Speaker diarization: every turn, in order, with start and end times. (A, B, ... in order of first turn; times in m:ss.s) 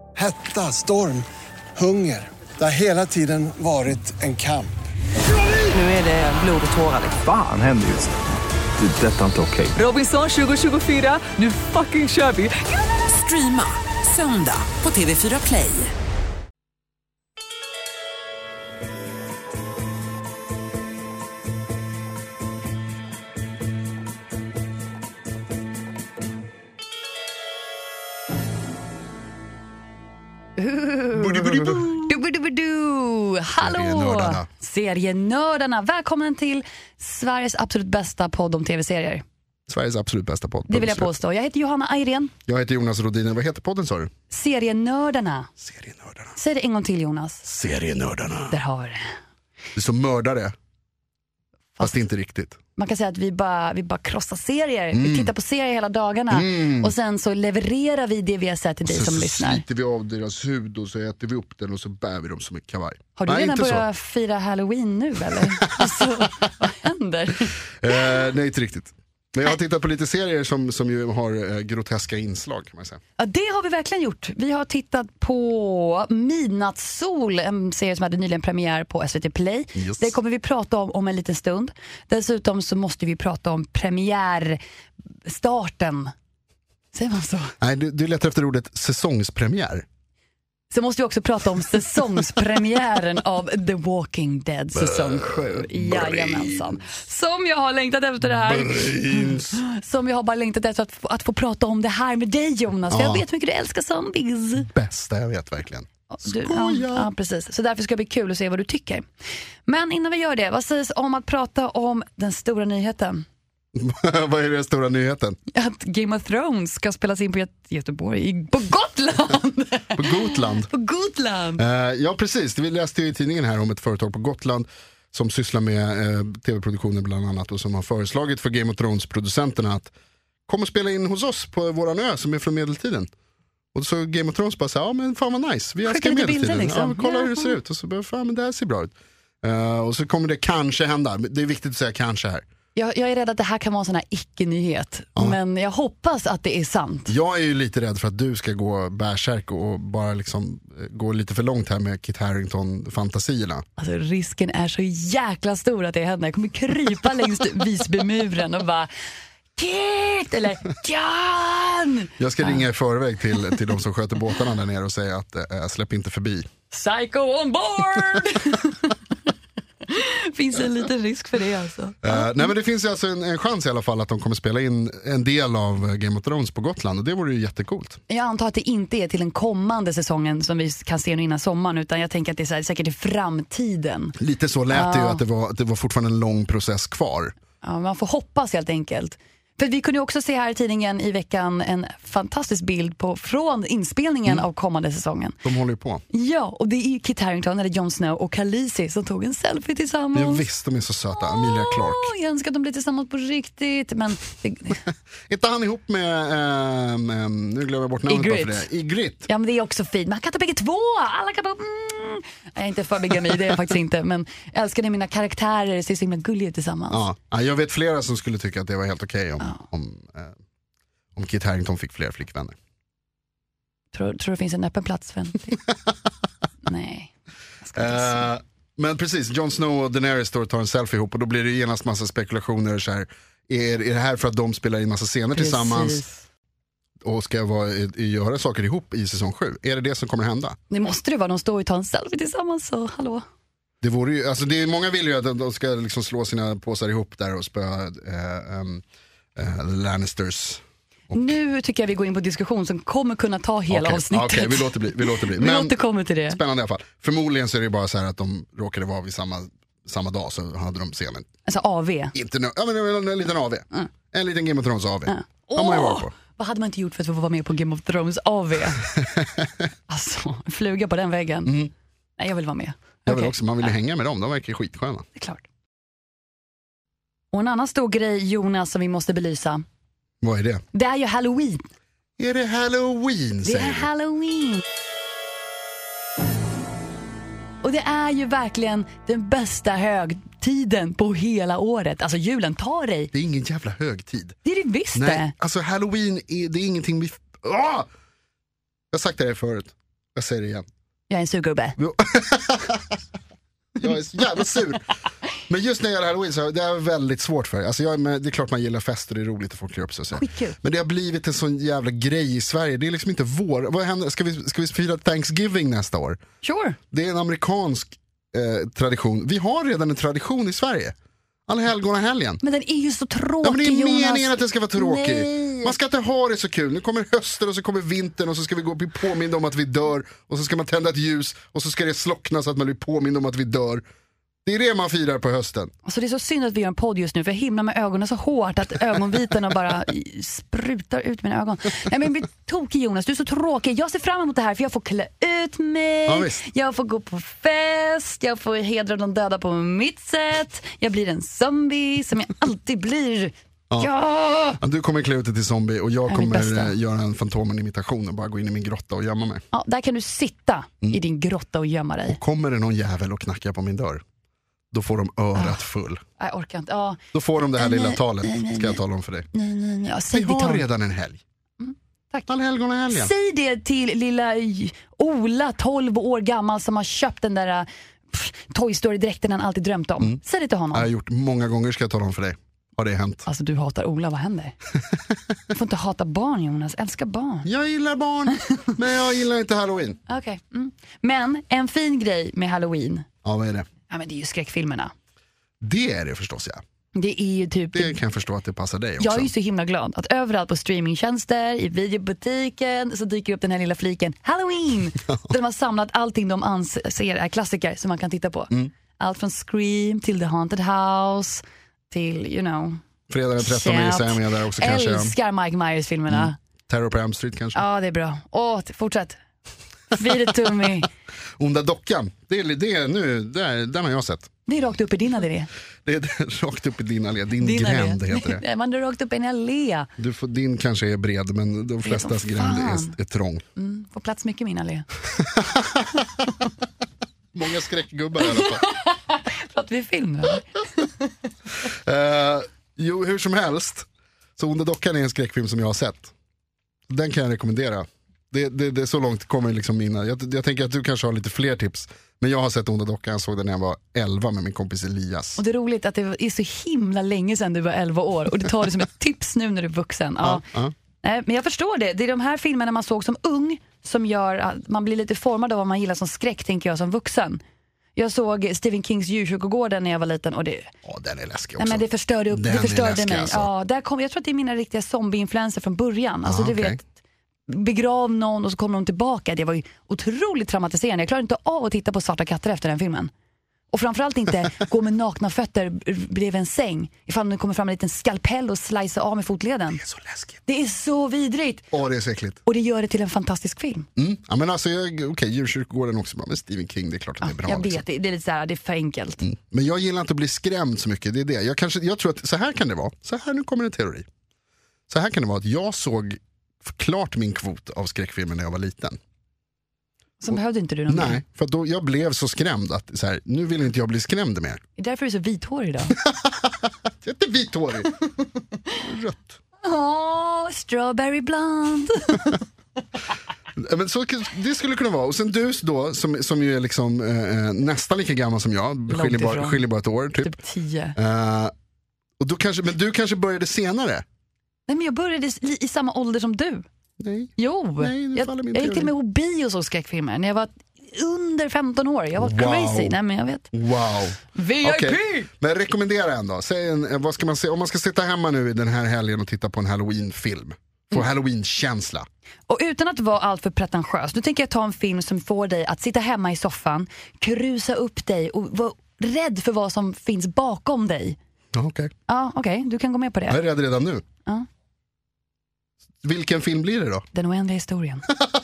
0:00.2-0:04.7 A
0:05.6-0:07.2 B
0:07.1-0:08.1 C
0:08.8-0:09.8 C
0:09.8-0:15.9 B
0:30.6-0:39.2 D
0:31.1-0:31.9 E
0:33.6-0:34.5 E
0:39.7-0:41.2 E
0:40.7-0:42.3 D
0:42.5-0:44.1 E
0:44.3-0:45.5 D
0:45.6-0:46.3 E
0:46.4-0:47.4 D
0:47.4-0:48.6 E
0:48.5-0:49.2 D
0:49.7-0:50.5 E
0:51.8-0:52.6 E
0:52.8-0:59.6 D
0:54.9-0:55.3 E
0:56.3-0:56.9 E
0:58.8-1:03.8 E
1:03.2-1:08.0 D
1:05.4-1:06.2 E
1:07.8-1:13.0 E
1:13.2-1:24.6 D
1:19.7-1:20.2 E
1:25.2-1:26.1 D
1:26.9-1:27.5 D
1:27.6-1:29.8 E
1:30.7-1:44.7 D
1:34.8-1:36.8 E
1:38.2-1:39.6 E
1:42.9-1:43.2 E
1:44.6-1:47.1 E
1:46.1-1:49.0 D
1:49.6-1:53.2 D
1:53.7-1:55.4 E
1:55.5-2:01.6 D
1:59.9-2:00.7 E
2:01.6-2:09.9 E
2:10.5-2:13.1 E
2:13.7-2:22.4 E
2:15.9-2:17.6 D
2:22.8-2:27.1 D
2:27.1-2:33.6 E
2:33.8-2:38.9 D
2:39.6-2:42.6 D
2:42.2-2:46.5 E
2:46.7-2:48.9 D
2:49.8-2:52.5 D
2:52.0-2:58.0 E
2:58.1-3:04.2 D
3:04.2-3:07.3 E
3:04.7-3:05.2 D
3:07.6-3:15.4 D
3:15.4-3:16.0 E
3:16.1-3:20.4 D
3:20.1-3:22.1 E
3:21.2-3:24.8 D
3:25.3-3:29.3 E
3:28.1-3:28.7 D
3:29.3-3:37.1 D
3:36.9-3:40.4 E
3:41.1-3:42.5 E
3:43.9-3:45.6 D
3:46.6-3:48.3 D
3:47.8-3:56.0 E
3:55.3-3:56.2 D
3:57.0-4:00.6 E
4:00.7-4:03.2 D
4:03.8-4:08.8 E
4:09.4-4:11.4 E
4:11.1-4:16.4 D
4:13.7-4:15.8 E
4:16.3-4:21.3 E
4:21.4-4:22.1 D
4:22.1-4:26.1 E
4:25.1-4:28.8 D
4:29.0-4:29.7 E
4:29.9-4:31.5 D
4:31.4-4:31.7 E
4:32.2-4:33.7 D
4:33.1-4:35.0 E
4:35.2-4:35.4 D
4:37.3-4:39.6 D
4:40.2-4:40.6 E
4:40.7-4:41.7 D
4:42.2-4:43.9 E
4:43.4-4:44.6 D
4:47.6-4:53.1 D
4:53.1-4:54.4 E
4:54.4-4:55.3 D
4:54.9-4:57.9 E
4:58.9-5:00.7 E
5:01.1-5:01.8 D
5:01.8-5:03.0 E
5:03.8-5:04.8 E
5:05.5-5:16.2 E
5:10.1-5:10.6 D
5:16.4-5:16.8 D
5:16.9-5:21.0 E
5:21.5-5:22.4 E
5:22.4-5:25.7 D
5:23.4-5:33.8 E
5:34.4-5:35.7 E
5:35.8-5:54.6 D
5:46.1-5:46.4 E
5:54.6-5:59.4 E
5:56.1-5:56.7 D
5:59.5-6:02.2 D
6:02.1-6:04.0 E
6:04.7-6:06.0 E
6:05.4-6:05.6 D
6:06.2-6:07.0 D
6:07.1-6:09.3 E
6:07.5-6:08.8 D
6:09.3-6:10.6 D
6:10.1-6:11.2 E
6:11.6-6:12.3 D
6:12.3-6:13.1 E
6:12.9-6:20.9 D
6:20.7-6:23.3 E
6:23.2-6:24.6 D
6:25.5-6:27.5 D
6:27.4-6:30.0 E
6:30.1-6:33.0 D
6:33.2-6:33.7 E
6:33.9-6:34.9 D
6:35.6-6:36.6 E
6:36.9-6:38.0 D
6:37.7-6:39.3 E
6:39.0-6:52.8 D
6:53.1-6:55.1 E
6:53.4-6:56.4 D
6:56.1-6:57.6 E
6:57.5-6:59.2 D
6:59.9-7:00.9 D
7:01.4-7:04.3 E
7:04.5-7:05.5 D
7:05.8-7:08.4 E
7:07.4-7:09.9 D
7:10.0-7:13.4 E
7:11.8-7:13.0 D
7:13.6-7:14.9 D
7:15.1-7:16.2 E
7:17.3-7:18.6 E
7:18.2-7:20.9 D
7:21.6-7:26.1 E
7:26.9-7:35.4 E
7:35.4-7:40.4 D
7:40.2-7:40.7 E
7:41.0-7:47.4 D
7:48.0-7:50.7 D
7:50.8-7:53.5 E
7:51.6-7:56.8 D
7:56.2-7:56.8 E
7:57.5-8:03.1 D
8:03.7-8:09.8 D
8:09.7-8:10.4 E
8:10.5-8:11.7 D
8:11.7-8:12.4 E
8:12.4-8:13.9 D
8:14.0-8:17.8 E
8:17.2-8:19.2 D
8:19.2-8:24.0 E
8:24.9-8:29.0 E
8:30.2-8:31.2 D
8:30.9-8:34.6 E
8:34.8-8:36.0 D
8:36.0-8:37.9 E
8:38.8-8:39.4 E
8:39.6-8:42.4 D
8:43.6-8:50.4 E
8:48.9-8:49.6 D
8:50.2-8:51.0 D
8:51.0-8:51.5 E
8:52.2-8:54.0 E
8:54.7-8:56.6 D
8:57.0-8:58.9 E
8:57.4-9:03.5 D
9:02.2-9:03.0 E
9:03.5-9:12.1 E
9:04.3-9:05.3 D
9:12.5-9:21.2 D
9:21.5-9:21.9 E
9:22.1-9:23.4 D
9:23.3-9:24.0 E
9:26.0-9:27.0 E
9:27.1-9:28.1 D